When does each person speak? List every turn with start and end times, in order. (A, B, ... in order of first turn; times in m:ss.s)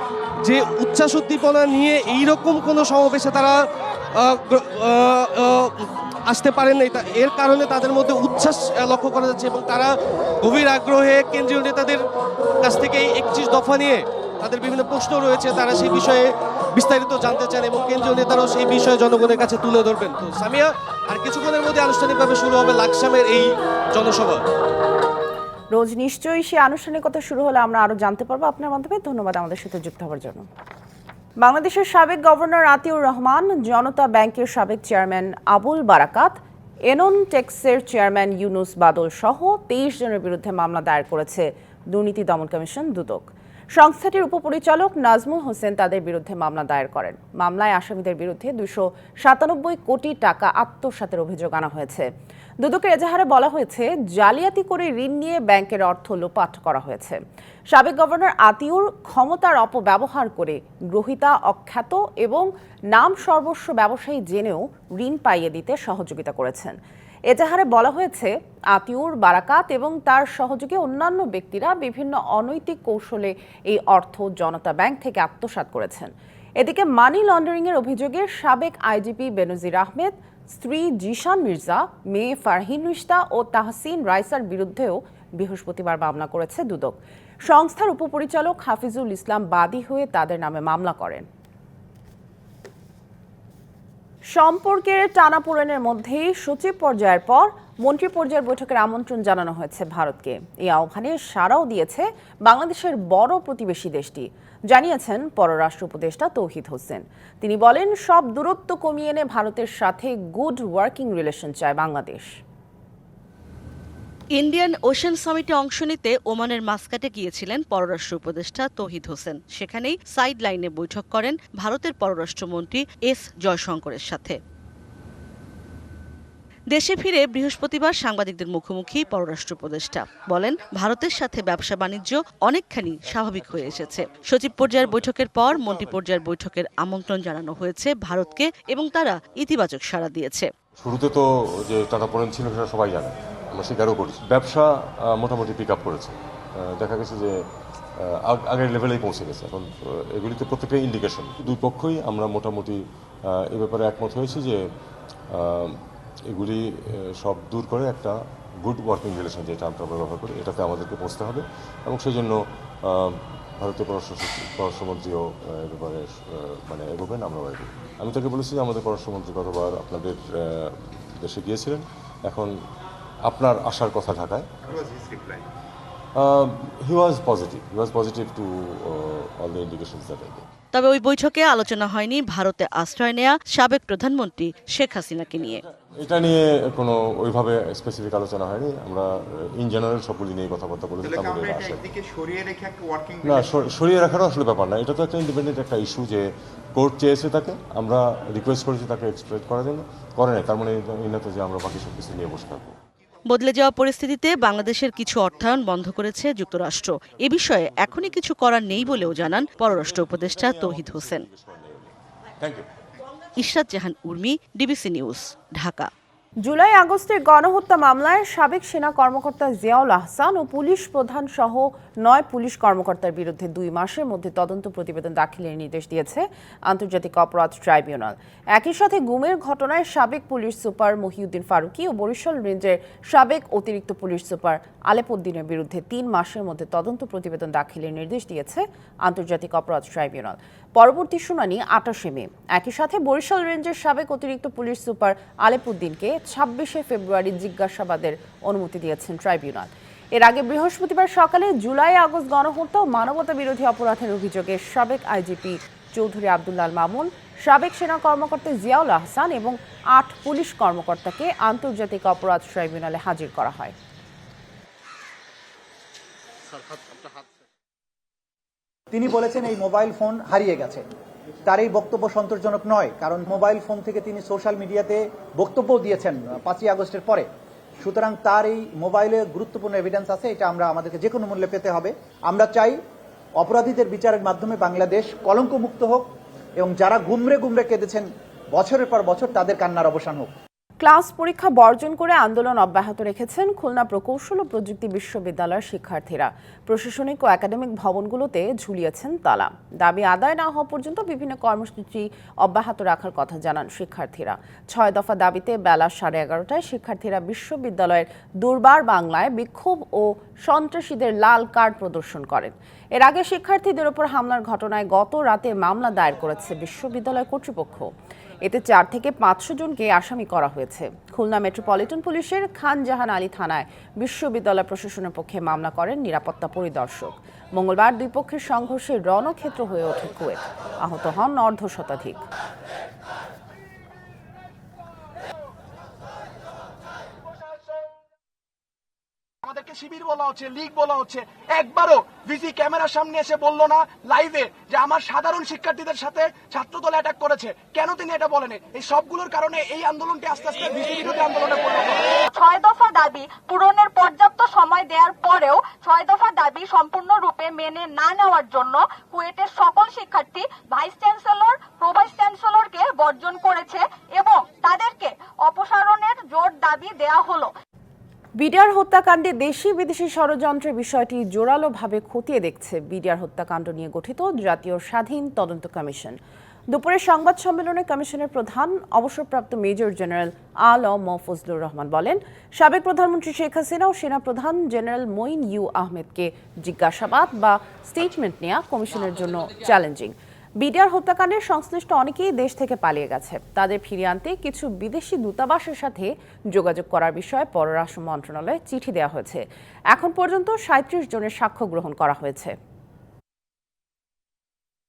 0:00.4-0:03.6 A
0:04.1-0:12.0 A
0:12.6-0:24.4 A
0:25.7-0:30.5 B
0:31.4-0:52.0 B
0:52.6-0:57.2 B
0:57.7-1:06.8 B
1:07.3-1:31.3 B
1:34.3-1:52.3 B
1:54.3-2:04.4 C
2:06.7-2:20.5 C
2:14.6-2:15.0 D
2:15.6-2:15.9 D
2:20.8-2:27.4 D
2:28.0-2:32.8 D
2:33.5-2:34.6 D
2:35.4-2:35.8 D
2:36.3-2:36.6 D
2:37.2-2:52.5 D
2:53.3-2:54.5 D
2:56.2-3:00.5 D
3:00.7-3:05.6 C
3:06.0-3:11.9 D
3:13.2-3:22.8 D
3:23.3-3:31.3 C
3:27.7-3:28.2 D
3:28.7-3:32.7 D
3:33.4-3:35.9 C
3:36.4-4:23.8 B
4:28.9-4:30.9 E
4:31.4-4:42.8 E
4:43.4-4:50.3 E
4:50.8-5:17.9 B
5:18.4-5:32.2 B
5:39.4-5:52.0 F
5:52.4-6:07.5 G
6:08.4-6:16.2 B
6:16.7-6:42.6 B